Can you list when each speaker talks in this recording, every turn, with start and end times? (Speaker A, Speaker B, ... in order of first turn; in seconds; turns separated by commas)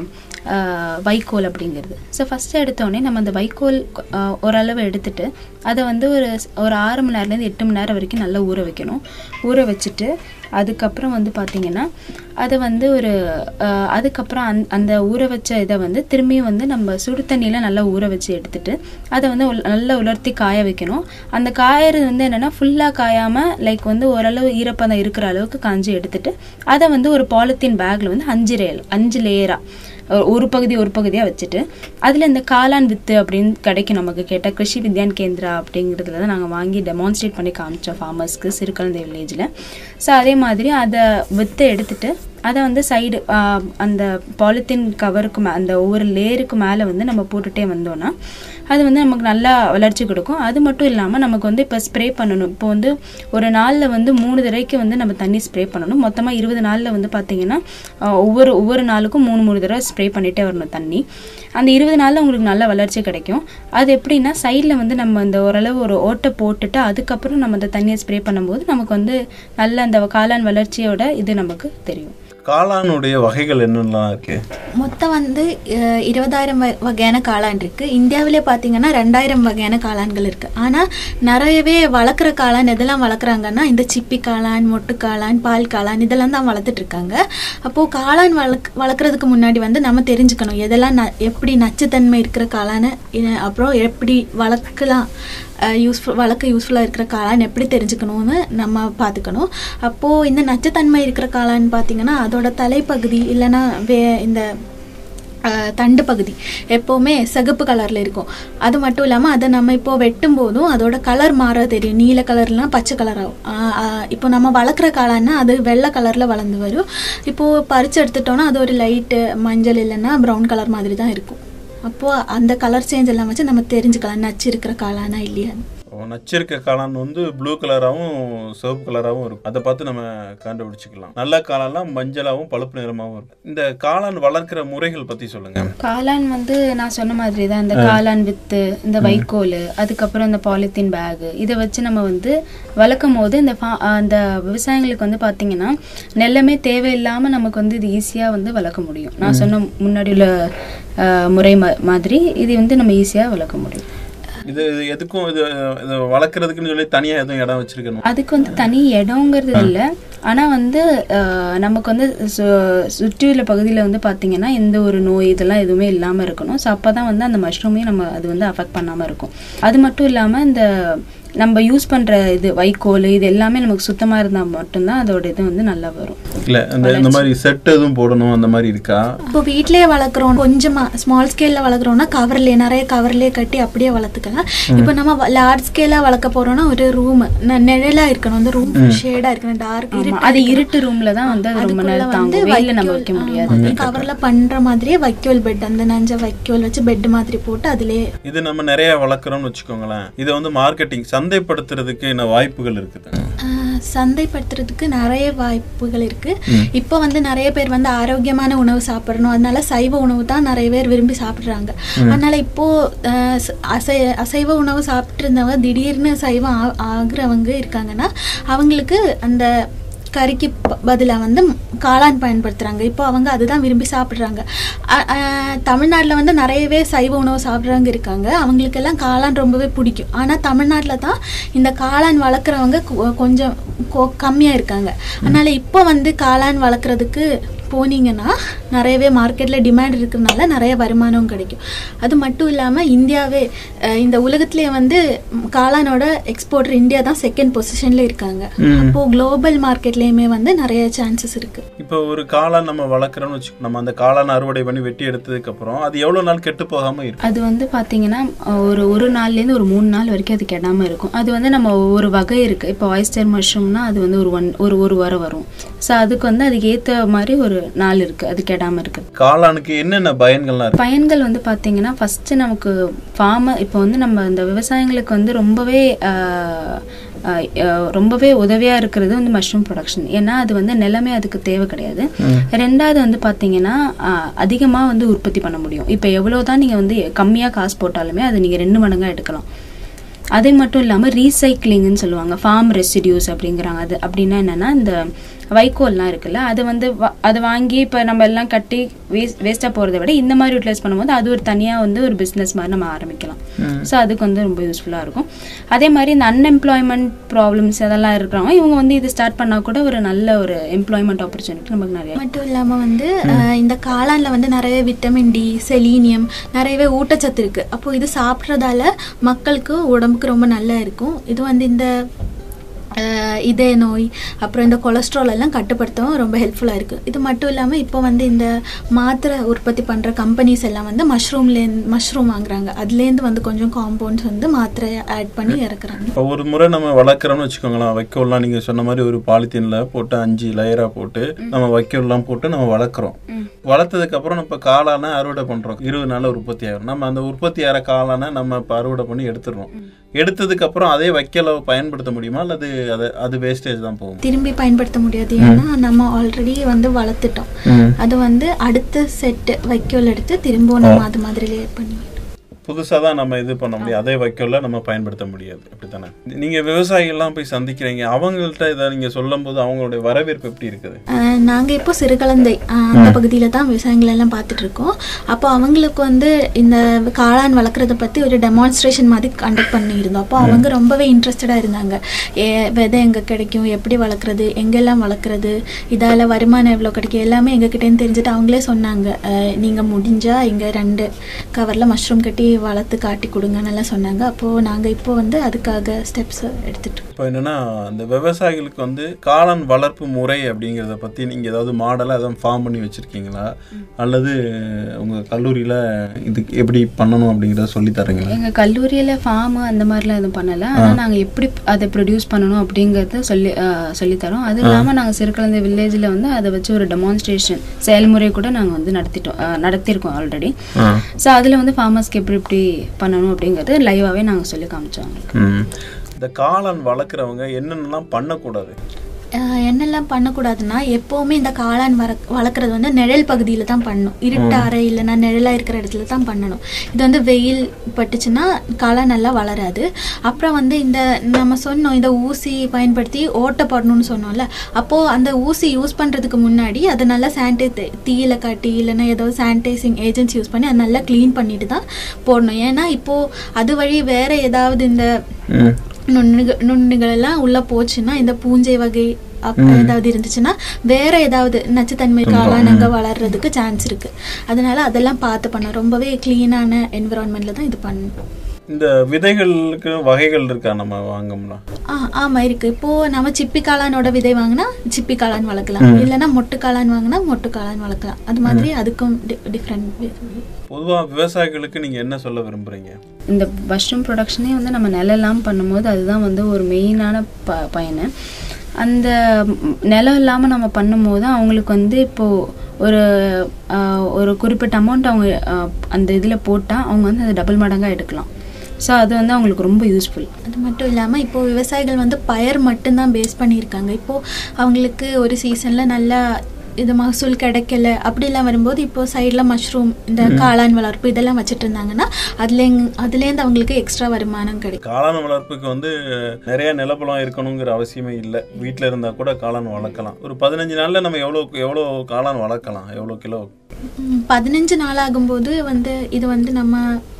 Speaker A: 0.5-11.9, Speaker A: 12.4-29.6, Speaker A: 30.1-39.5, Speaker A: 40.0-48.1, Speaker A: 48.7-57.6, Speaker A: 58.2-61.0, Speaker A: 61.6-72.1, Speaker B: 72.5-74.4, Speaker C: 74.8-75.5, Speaker C: 76.0-95.1, Speaker C: 95.8-104.5, Speaker C: 105.5-125.5, Speaker B: 125.9-135.7, Speaker A: 135.8-150.3, Speaker B: 139.0-139.3, Speaker B: 149.2-149.5, Speaker A: 151.1-153.8, Speaker B: 154.4-158.0, Speaker A: 158.1-176.2, Speaker B: 176.5-179.2, Speaker A: 176.8-177.2, Speaker C: 179.3-190.7, Speaker B: 188.8-189.0, Speaker A: 189.9-193.8, Speaker C: 191.2-198.0, Speaker B: 193.5-194.1, Speaker B: 198.2-203.3, Speaker C: 203.4-219.5, Speaker C: 220.2-243.4, Speaker C: 244.0-245.0, Speaker C: 245.5-251.6, Speaker B: 248.7-249.0, Speaker B: 251.8-257.2, Speaker A: 257.2-269.0, Speaker B: 269.2-270.8, Speaker A: 270.8-276.8, Speaker A: 277.3-289.4, Speaker B: 282.2-282.5, Speaker A: 290.3-295.0, Speaker A: 295.5-312.2, Speaker B: 303.6-303.9, Speaker C: 312.2-321.9, Speaker C: 322.9-336.1, Speaker B: 336.1-343.1, Speaker B: 343.7-354.2, Speaker C: 354.2-362.1, Speaker B: 355.4-355.6, Speaker B: 357.7-357.9, Speaker B: 362.6-371.0, Speaker C: 371.4-397.0, Speaker B: 372.9-373.2, Speaker B: 397.1-408.4, Speaker A: 408.3-420.5, Speaker B: 420.8-421.0, Speaker A: 421.2-425.3, Speaker B: 425.3-425.7, Speaker B: 426.2-428.7, Speaker C: 429.4-455.1, Speaker B: 434.3-434.7, Speaker B: 455.5-455.8, Speaker C: 456.1-468.1, Speaker B: 459.6-459.9, Speaker B: 462.2-462.9, Speaker B: 468.7-471.6, Speaker C: 471.9-480.4, Speaker B: 475.8-476.1, Speaker B: 480.7-482.9, Speaker A: 483.3-488.1, Speaker A: 488.8-492.3, Speaker A: 492.8-498.3, Speaker A: 498.8-500.3, Speaker C: 500.5-506.2, Speaker C: 506.8-514.8, Speaker B: 510.2-510.5, Speaker B: 514.8-523.5, Speaker C: 524.0-526.8